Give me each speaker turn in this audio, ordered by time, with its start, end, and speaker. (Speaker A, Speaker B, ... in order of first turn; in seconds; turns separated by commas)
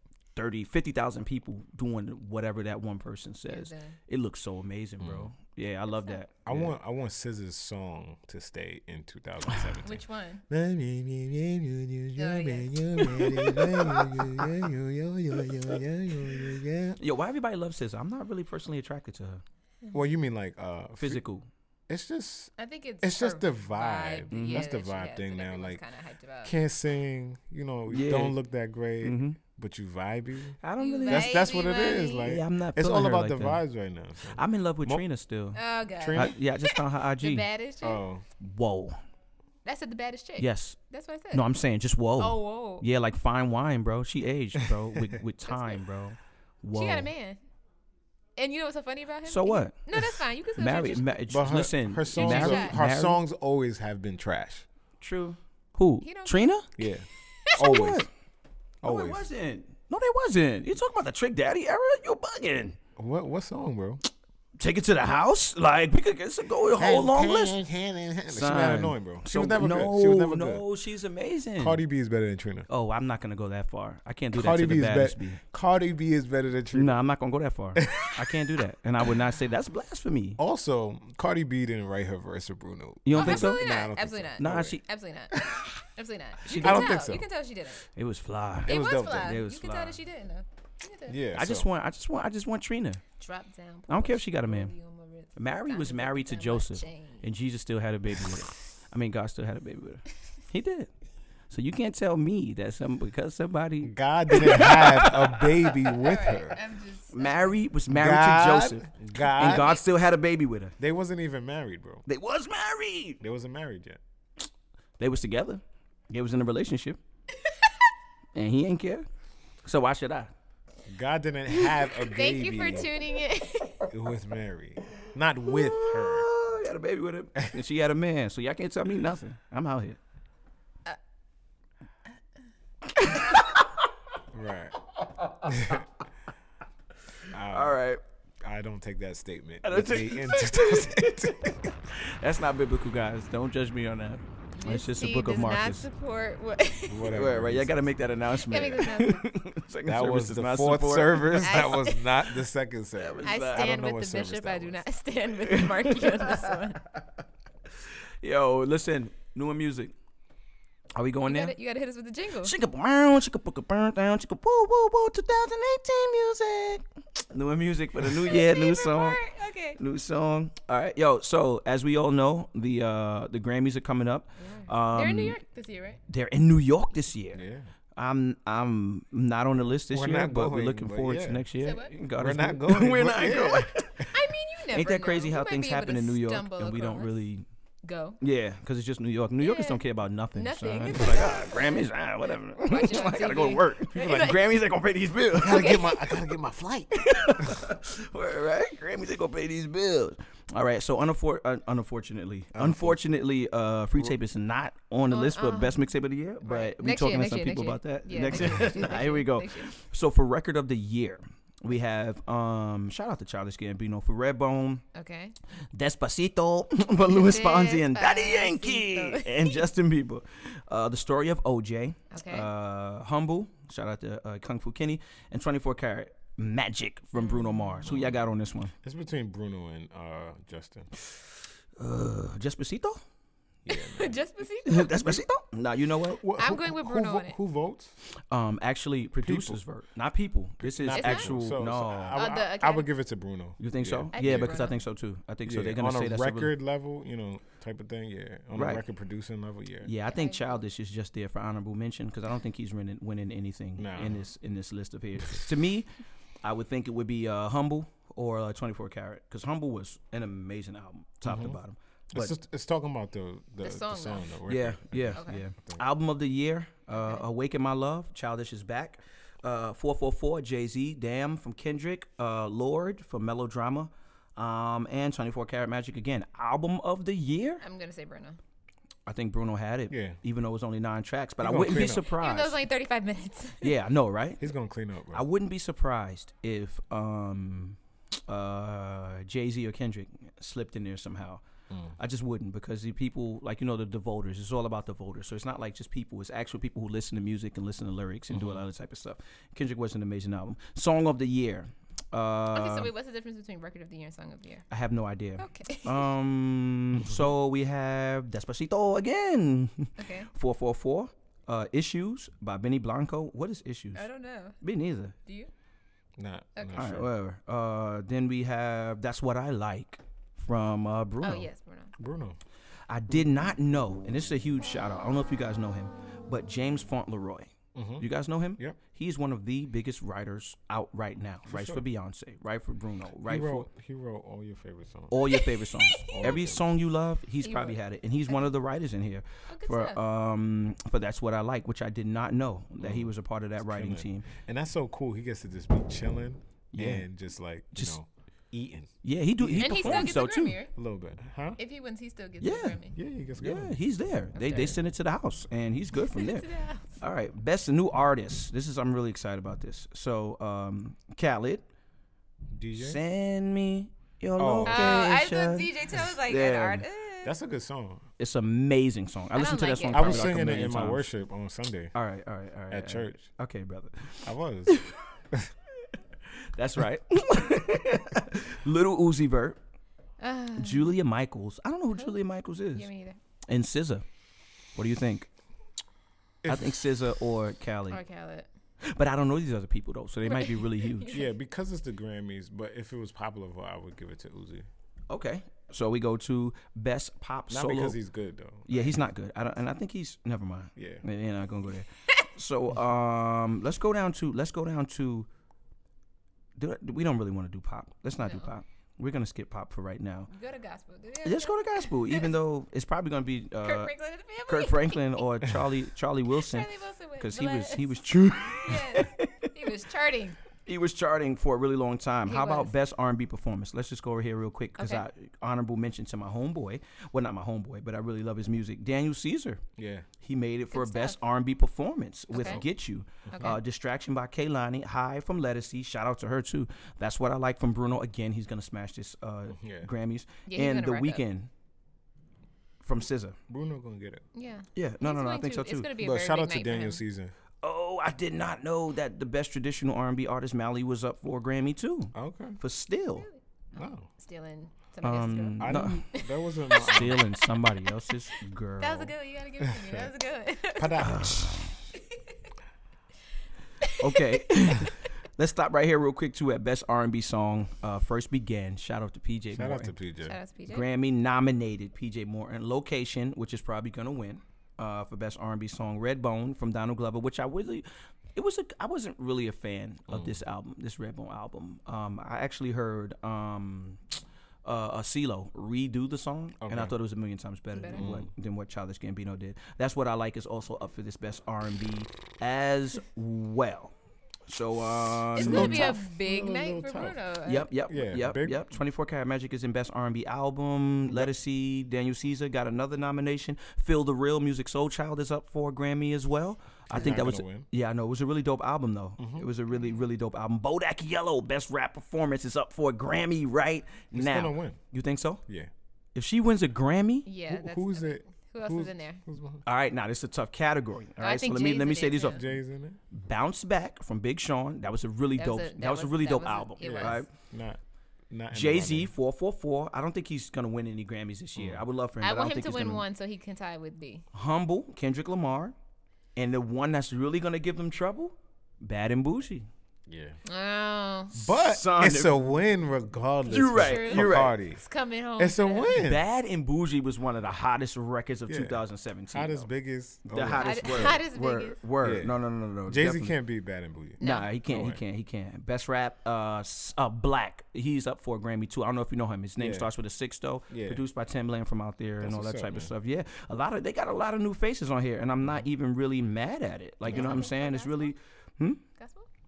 Speaker A: 0.3-6.7, Speaker B: 3.5-4.0, Speaker C: 5.0-5.3, Speaker B: 5.9-6.2, Speaker C: 6.5-17.0, Speaker B: 9.8-10.4, Speaker B: 12.2-13.4, Speaker A: 13.1-14.6, Speaker A: 15.5-15.8, Speaker A: 17.0-19.4, Speaker C: 19.9-21.2, Speaker A: 21.0-21.5, Speaker C: 21.9-22.5, Speaker B: 22.6-26.5, Speaker C: 23.0-25.8, Speaker A: 24.3-24.7, Speaker C: 26.4-35.0, Speaker A: 27.9-28.4, Speaker A: 29.0-29.4, Speaker A: 30.6-31.4, Speaker B: 30.8-32.3, Speaker A: 32.2-33.6, Speaker A: 34.3-37.5, Speaker B: 35.5-38.0, Speaker C: 36.0-36.4, Speaker C: 37.8-38.2, Speaker A: 38.4-39.0, Speaker B: 39.6-41.4, Speaker A: 40.4-40.8, Speaker A: 41.3-47.1, Speaker B: 42.2-42.9, Speaker B: 45.5-45.8, Speaker B: 46.7-47.4, Speaker B: 48.4-51.3, Speaker A: 49.2-53.2, Speaker C: 51.3-54.7, Speaker B: 52.1-52.8, Speaker A: 55.0-56.7, Speaker B: 56.0-56.6, Speaker C: 56.8-58.1, Speaker B: 57.4-57.8, Speaker A: 57.6-58.1, Speaker C: 58.8-59.3, Speaker A: 58.8-62.8, Speaker C: 63.0-64.0, Speaker A: 64.6-67.6, Speaker C: 66.8-70.7, Speaker A: 68.3-71.8, Speaker C: 71.6-72.7, Speaker A: 72.7-75.4, Speaker C: 74.3-77.0, Speaker A: 76.7-80.4, Speaker C: 77.8-78.4, Speaker C: 80.4-84.8, Speaker A: 83.0-83.8, Speaker B: 83.1-87.9, Speaker A: 84.4-84.8, Speaker C: 85.4-85.7, Speaker A: 86.4-87.2, Speaker C: 86.5-87.2, Speaker A: 87.9-90.0, Speaker C: 88.7-89.4, Speaker B: 88.7-91.2, Speaker C: 91.1-91.7, Speaker A: 91.3-93.0, Speaker B: 93.2-97.2, Speaker A: 93.9-94.7, Speaker A: 95.3-100.9, Speaker A: 101.5-106.3, Speaker C: 103.8-106.6, Speaker B: 106.0-107.6, Speaker A: 107.1-110.7, Speaker C: 107.9-109.8, Speaker B: 109.5-109.7, Speaker C: 110.8-112.0, Speaker A: 112.0-113.2, Speaker C: 113.2-114.0, Speaker A: 115.0-117.0, Speaker A: 118.3-119.1, Speaker A: 119.6-120.3, Speaker C: 120.9-122.9, Speaker B: 121.6-123.9, Speaker C: 123.9-126.3, Speaker A: 125.4-130.0, Speaker A: 132.9-133.9, Speaker C: 134.3-134.8, Speaker A: 135.0-135.8, Speaker C: 135.4-135.9, Speaker C: 137.3-137.8, Speaker A: 137.4-138.0, Speaker C: 138.4-141.7, Speaker A: 139.6-145.8, Speaker B: 144.5-147.2, Speaker C: 146.9-147.8, Speaker A: 147.0-151.9, Speaker B: 148.4-149.3, Speaker C: 149.8-154.8, Speaker B: 151.4-152.1, Speaker A: 153.0-153.7, Speaker B: 153.2-156.9, Speaker A: 155.4-156.6, Speaker A: 157.7-159.9, Speaker A: 160.9-161.5, Speaker B: 161.2-162.5, Speaker A: 162.4-169.2, Speaker B: 168.2-169.8, Speaker A: 169.8-175.4, Speaker B: 174.4-176.0, Speaker A: 176.1-177.4, Speaker C: 177.3-177.7, Speaker A: 177.9-184.1, Speaker C: 179.9-181.4, Speaker B: 181.6-181.9, Speaker C: 182.2-184.1, Speaker B: 184.1-187.2, Speaker A: 184.7-187.4, Speaker B: 187.8-188.2, Speaker A: 188.2-195.8, Speaker B: 189.4-191.9, Speaker B: 192.5-194.6, Speaker C: 194.0-194.2, Speaker C: 195.3-197.6, Speaker B: 195.4-196.3, Speaker A: 197.0-214.8, Speaker B: 197.0-197.3, Speaker C: 202.5-203.0, Speaker B: 205.1-205.8, Speaker B: 206.4-209.7, Speaker B: 214.9-215.3, Speaker A: 215.7-228.7, Speaker B: 217.1-219.7, Speaker B: 222.1-222.5, Speaker B: 227.2-227.6, Speaker C: 227.8-228.2, Speaker C: 228.8-230.9, Speaker A: 231.8-233.0, Speaker C: 233.7-234.2, Speaker B: 233.7-235.2, Speaker A: 234.7-236.2, Speaker C: 236.1-238.0, Speaker B: 236.4-237.4, Speaker A: 238.1-242.2, Speaker C: 239.2-239.6, Speaker C: 240.6-244.6, Speaker B: 240.9-241.4, Speaker B: 242.1-242.9, Speaker A: 243.6-246.5, Speaker B: 244.1-244.8, Speaker C: 245.4-249.9, Speaker A: 248.5-248.8, Speaker A: 249.8-255.9, Speaker B: 250.1-250.6, Speaker C: 253.8-254.2, Speaker A: 256.4-262.3, Speaker C: 261.2-261.6, Speaker C: 262.1-265.8, Speaker B: 263.6-264.4, Speaker A: 264.5-277.6, Speaker B: 265.1-265.4, Speaker B: 266.9-267.2, Speaker B: 277.6-278.4, Speaker A: 279.1-282.6, Speaker C: 279.9-280.2, Speaker C: 281.4-282.1, Speaker B: 281.8-283.8, Speaker A: 283.6-284.5, Speaker C: 284.4-285.2, Speaker A: 285.1-291.4, Speaker C: 291.7-291.9, Speaker A: 292.0-302.9, Speaker C: 298.3-298.6, Speaker B: 302.5-304.6, Speaker A: 304.7-314.0, Speaker B: 305.4-306.1, Speaker B: 310.0-310.3, Speaker B: 313.9-314.6, Speaker A: 314.6-315.1, Speaker B: 315.2-315.5, Speaker C: 316.2-317.1, Speaker B: 316.6-316.9, Speaker A: 316.7-321.5, Speaker B: 321.2-321.9, Speaker C: 322.0-322.4, Speaker A: 322.9-333.7, Speaker C: 327.7-328.1, Speaker C: 331.4-331.9, Speaker C: 333.2-335.2, Speaker A: 335.1-344.3, Speaker B: 335.1-336.4, Speaker C: 336.0-336.6, Speaker B: 337.4-338.5, Speaker B: 339.5-340.0, Speaker C: 342.8-350.2, Speaker A: 346.7-347.1, Speaker A: 349.0-350.6, Speaker B: 349.6-350.7, Speaker C: 350.7-351.6, Speaker B: 351.6-352.9, Speaker A: 352.4-352.8, Speaker C: 352.9-353.7, Speaker A: 353.4-356.5, Speaker B: 354.4-354.8, Speaker B: 355.9-357.0, Speaker A: 357.0-361.6, Speaker C: 362.5-363.0, Speaker A: 362.8-366.9, Speaker C: 364.4-365.1, Speaker B: 364.6-367.3, Speaker C: 367.2-368.1, Speaker A: 368.2-371.1, Speaker B: 369.3-370.7, Speaker C: 369.9-371.9, Speaker A: 371.9-375.0, Speaker C: 372.7-373.3, Speaker C: 374.2-375.5, Speaker A: 375.8-379.6, Speaker B: 380.2-380.9, Speaker A: 380.6-382.9, Speaker B: 381.9-382.2, Speaker B: 382.7-383.2, Speaker A: 383.5-384.0, Speaker A: 384.7-385.3, Speaker C: 386.4-386.8, Speaker A: 386.4-388.0, Speaker B: 387.9-388.5, Speaker A: 388.8-391.2, Speaker B: 390.2-391.3, Speaker C: 391.1-394.6, Speaker A: 395.1-398.0, Speaker C: 397.5-399.0, Speaker A: 398.7-405.3, Speaker C: 400.8-401.0, Speaker A: 406.6-410.3, Speaker B: 408.2-408.5, Speaker B: 410.3-412.3, Speaker A: 411.2-413.9, Speaker B: 413.6-415.3, Speaker A: 414.5-419.8, Speaker B: 416.3-420.4, Speaker A: 420.6-429.6, Speaker B: 422.2-422.7, Speaker B: 424.8-425.1, Speaker C: 429.8-430.1, Speaker A: 430.2-441.5, Speaker B: 430.7-431.2, Speaker B: 432.3-432.6, Speaker C: 433.2-433.5, Speaker B: 433.3-433.6, Speaker C: 439.5-439.9, Speaker B: 440.5-441.2, Speaker A: 442.8-443.4, Speaker C: 443.5-444.2, Speaker B: 444.3-447.0, Speaker A: 444.7-445.9, Speaker C: 446.0-447.3, Speaker A: 447.6-453.3, Speaker C: 452.1-452.6, Speaker B: 453.1-461.4, Speaker C: 453.7-454.1, Speaker A: 455.0-456.1, Speaker C: 455.6-457.2, Speaker A: 456.7-459.1, Speaker C: 459.6-460.1, Speaker C: 460.7-461.7, Speaker A: 461.0-461.8, Speaker B: 463.8-464.4, Speaker A: 464.0-469.9, Speaker C: 469.5-470.4, Speaker B: 470.2-470.9, Speaker A: 470.7-493.9, Speaker C: 480.1-480.4, Speaker C: 486.6-486.9, Speaker B: 487.7-488.0, Speaker C: 487.9-488.3, Speaker A: 494.5-496.0, Speaker C: 495.4-497.2, Speaker B: 495.4-497.7, Speaker A: 497.4-515.4, Speaker C: 497.9-498.6, Speaker C: 506.9-507.7, Speaker C: 509.2-509.5, Speaker B: 509.7-510.1, Speaker C: 514.1-514.8, Speaker A: 516.1-517.3, Speaker B: 517.2-519.2, Speaker C: 517.5-519.6, Speaker A: 519.6-522.5, Speaker B: 521.2-522.4, Speaker C: 522.3-523.0, Speaker A: 523.1-527.3, Speaker B: 525.4-527.2, Speaker C: 526.8-529.1, Speaker A: 528.5-533.0, Speaker C: 531.5-531.8, Speaker B: 532.2-534.2, Speaker A: 534.3-535.7, Speaker A: 536.4-539.7, Speaker C: 540.1-540.4, Speaker B: 540.4-541.5, Speaker C: 541.3-544.8, Speaker A: 541.5-542.3, Speaker A: 543.5-544.5, Speaker B: 543.5-546.0, Speaker C: 545.4-546.2, Speaker A: 545.9-549.7, Speaker C: 548.5-551.2, Speaker A: 550.2-553.4, Speaker B: 550.5-551.8, Speaker C: 552.0-552.3, Speaker C: 552.9-555.0, Speaker B: 554.2-554.5, Speaker A: 554.2-568.8, Speaker C: 559.6-559.9, Speaker C: 560.7-561.0, Speaker C: 562.2-562.9, Speaker C: 567.1-567.5, Speaker B: 567.1-568.1, Speaker B: 569.0-569.3